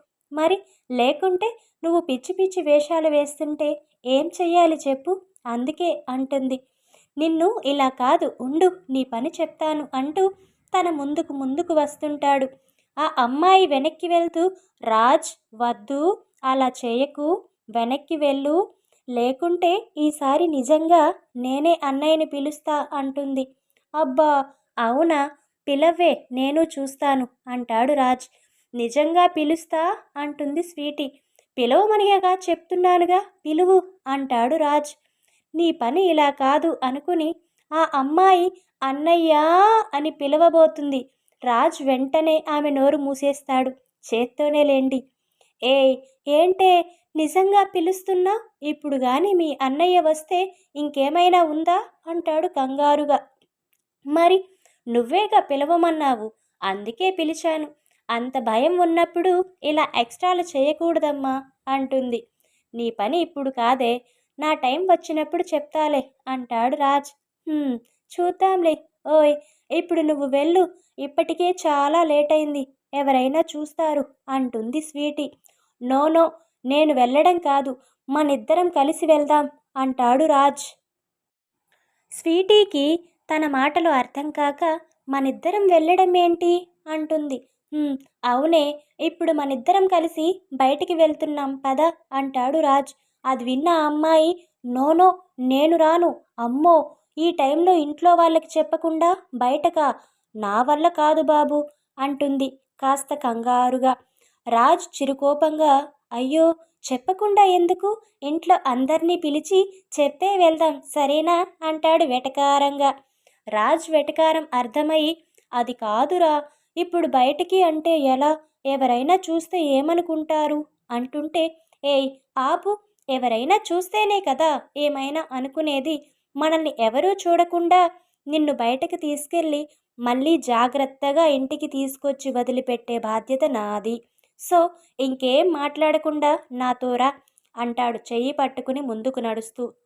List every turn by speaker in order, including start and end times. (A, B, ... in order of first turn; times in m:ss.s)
0:00.4-0:06.6 A
0:07.2-0:12.5 A
0:13.0-0:18.6 A
0:19.2-0:23.4 A
0:24.0-0:24.3 A
0:24.8-0:28.2 A
0:28.8-0:31.1 A
0:31.6-0:34.9 A
0:35.6-0:37.3 A
0:37.8-0:39.4 A
0:39.9-0:45.0 A
0:45.7-0:53.2 A
0:54.1-0:54.4 A
0:54.9-1:02.2 A
1:02.8-1:15.3 A
1:15.9-1:20.6 A
1:22.2-1:39.9 A
1:40.4-1:43.9 A
1:44.6-1:52.9 A
1:53.6-2:07.8 A
2:08.3-2:17.1 A
2:17.6-2:19.6 A